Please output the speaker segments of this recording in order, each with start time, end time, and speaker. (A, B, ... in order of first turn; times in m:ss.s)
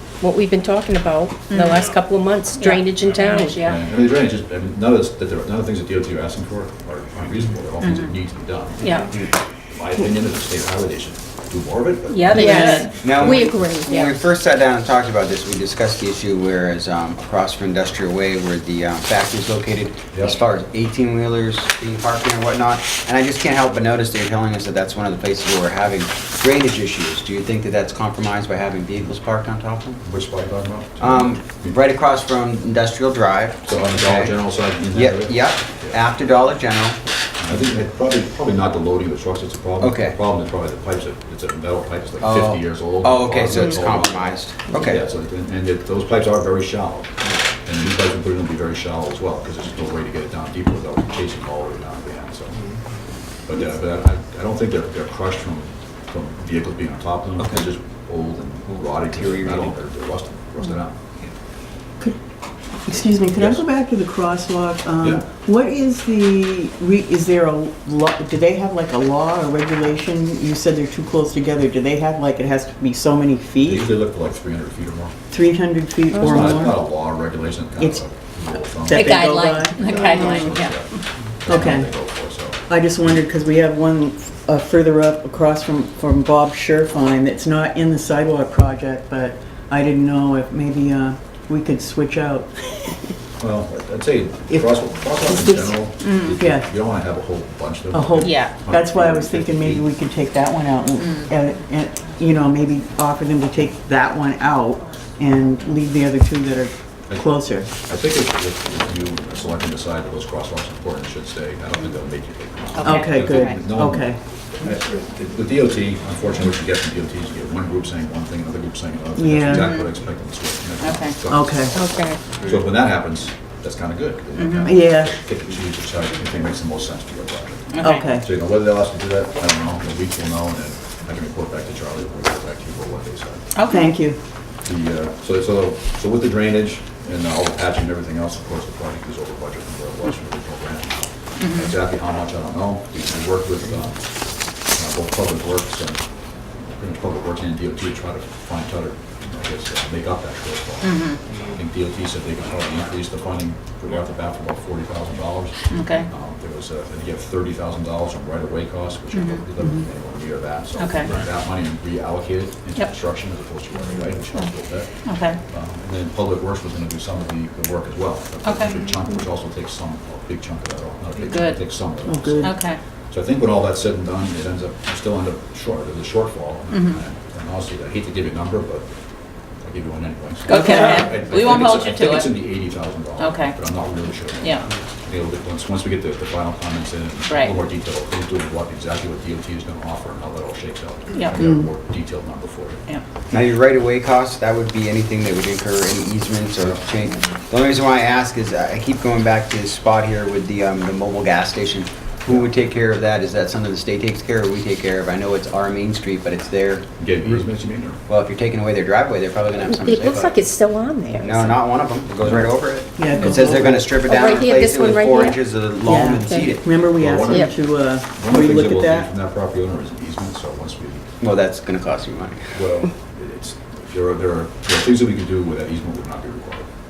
0:00.2-0:03.8 A
0:03.6-0:09.0 B
0:07.8-0:08.1 C
0:08.8-0:09.1 A
0:09.7-0:13.5 B
0:12.1-0:14.2 A
0:12.4-0:12.9 C
0:13.0-0:30.0 D
0:30.0-0:31.8 B
0:31.0-0:34.4 D
0:33.7-0:36.0 B
0:34.9-0:37.0 D
0:37.4-0:52.6 B
0:39.8-0:40.2 D
0:42.2-0:45.1 D
0:53.5-1:01.0 B
0:57.4-0:57.7 D
0:58.7-0:59.8 D
1:02.8-1:14.0 E
1:03.2-1:03.6 B
1:05.0-1:05.3 B
1:13.6-1:15.1 B
1:15.3-1:16.9 E
1:16.2-1:19.2 B
1:17.8-1:20.4 E
1:19.0-1:20.8 C
1:19.7-1:23.2 B
1:21.5-1:21.9 E
1:22.7-1:33.0 E
1:33.4-1:39.9 B
1:34.5-1:36.7 E
1:36.0-1:36.4 C
1:37.9-1:47.7 E
1:38.2-1:38.5 C
1:41.0-1:41.3 C
1:47.1-2:13.4 B
1:52.8-1:53.7 C
1:52.8-1:54.2 E
1:59.2-1:59.8 E
1:59.5-1:59.9 C
2:00.8-2:01.2 C
2:01.3-2:01.8 E
2:01.7-2:02.2 A
2:04.4-2:04.8 C
2:04.6-2:05.2 E
2:07.7-2:08.1 C
2:07.8-2:08.3 E
2:13.5-2:13.9 C
2:13.7-2:14.2 E
2:14.6-2:24.1 B
2:21.4-2:21.7 C
2:24.7-2:26.0 B
2:26.7-2:45.0 B
2:30.8-2:31.2 C
2:35.7-2:36.1 C
2:39.1-2:39.4 C
2:40.8-2:41.2 C
2:45.0-2:45.4 C
2:45.5-2:58.9 B
2:48.4-2:48.8 C
2:51.2-2:51.6 C
2:52.1-2:52.5 E
2:52.4-2:52.8 C
2:56.7-2:57.0 C
2:59.6-3:12.8 B
3:00.5-3:02.4 C
3:03.2-3:03.6 C
3:07.3-3:07.6 C
3:11.4-3:11.7 E
3:13.3-3:26.9 D
3:22.3-3:22.5 B
3:27.0-3:28.0 B
3:28.1-3:30.4 D
3:29.6-3:31.6 A
3:31.2-3:36.6 D
3:32.2-3:32.5 B
3:33.0-3:34.0 E
3:34.0-3:35.4 A
3:35.8-3:39.1 E
3:36.2-3:36.5 A
3:36.9-3:41.1 B
3:41.2-3:42.5 D
3:42.6-3:46.7 B